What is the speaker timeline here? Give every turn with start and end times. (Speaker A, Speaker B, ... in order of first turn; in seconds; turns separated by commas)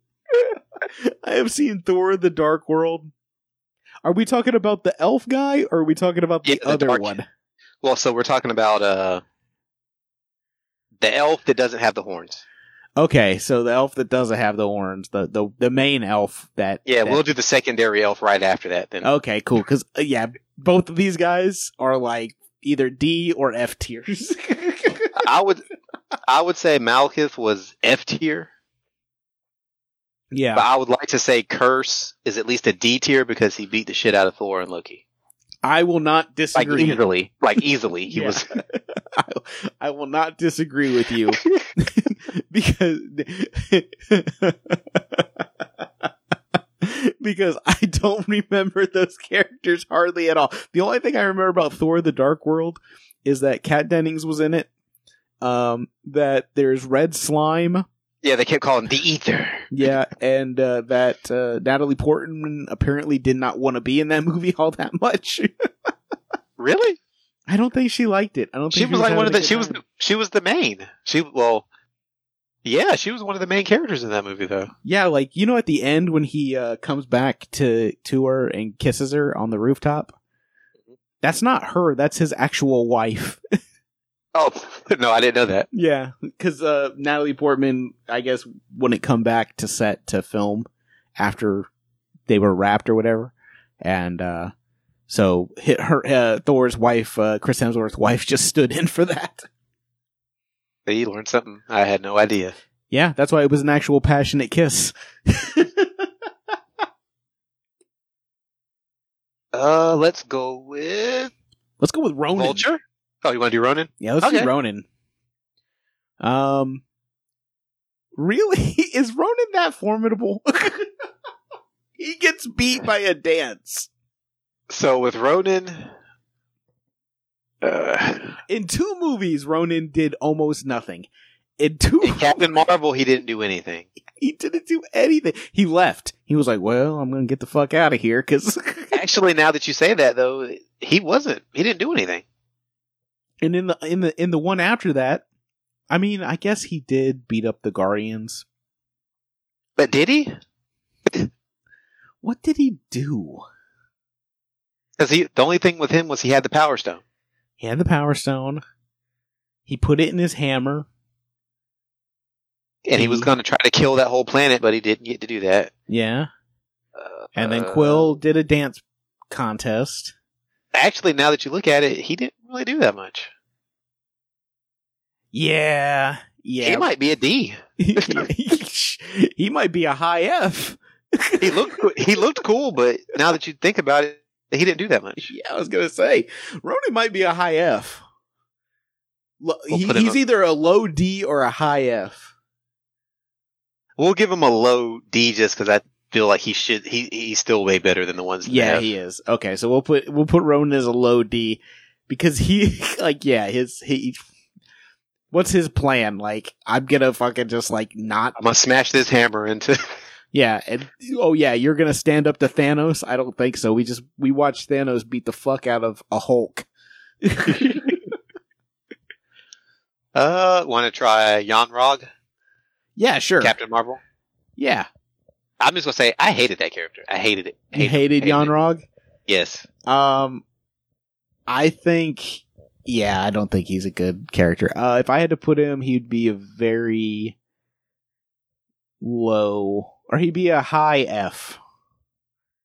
Speaker A: 0.3-3.1, Speaker A: 4.0-7.3, Speaker B: 6.5-7.2, Speaker B: 7.8-9.2, Speaker B: 11.0-12.4, Speaker A: 13.0-17.2, Speaker B: 16.9-19.1, Speaker A: 19.0-25.2, Speaker B: 25.2-25.6, Speaker B: 26.3-28.5, Speaker A: 30.3-30.7, Speaker B: 30.6-35.0, Speaker A: 35.6-37.0, Speaker B: 36.5-38.5, Speaker A: 38.1-45.2, Speaker A: 46.8-54.7, Speaker A: 55.4-57.8, Speaker B: 58.2-59.7, Speaker A: 59.7-65.5, Speaker B: 66.6-67.0, Speaker A: 67.5-69.8, Speaker B: 68.7-71.7, Speaker B: 72.6-74.7, Speaker A: 74.8-80.1, Speaker A: 81.2-83.4, Speaker B: 84.3-85.7, Speaker A: 85.7-91.7, Speaker A: 92.3-94.5, Speaker A: 95.1-99.5, Speaker B: 100.9-102.5, Speaker A: 102.9-106.1, Speaker B: 109.5-111.3, Speaker A: 111.8-112.6, Speaker B: 112.3-114.5, Speaker A: 114.0-114.8, Speaker A: 116.2-116.8, Speaker A: 118.2-120.9, Speaker A: 122.0-123.9, Speaker B: 124.7-125.9, Speaker B: 127.6-128.3, Speaker A: 128.5-131.1, Speaker A: 131.6-132.6, Speaker B: 132.0-133.9, Speaker A: 134.2-139.0, Speaker B: 138.9-142.2, Speaker A: 143.4-145.2, Speaker A: 145.9-148.4, Speaker B: 149.8-150.3, Speaker A: 152.2-153.4, Speaker B: 155.0-157.0, Speaker A: 157.6-158.6, Speaker A: 159.7-160.9, Speaker B: 162.9-165.7, Speaker A: 162.9-163.3, Speaker A: 165.9-166.3, Speaker B: 166.9-168.1, Speaker A: 167.4-170.1, Speaker B: 170.7-173.3, Speaker A: 175.3-176.9, Speaker B: 176.6-178.3, Speaker A: 177.8-181.8, Speaker B: 181.4-185.3, Speaker A: 185.2-188.0, Speaker A: 189.4-192.3, Speaker B: 189.7-190.2, Speaker B: 194.0-198.9, Speaker A: 198.4-204.2, Speaker A: 205.3-208.4, Speaker B: 208.4-209.8, Speaker A: 210.3-216.7, Speaker A: 217.2-218.0, Speaker B: 217.5-217.9, Speaker B: 220.1-222.1, Speaker A: 223.0-223.6, Speaker B: 223.4-224.0, Speaker A: 224.6-224.9, Speaker B: 225.6-228.5, Speaker A: 227.7-228.8, Speaker B: 229.3-229.7, Speaker A: 229.9-230.4, Speaker A: 231.5-237.4, Speaker A: 239.0-241.6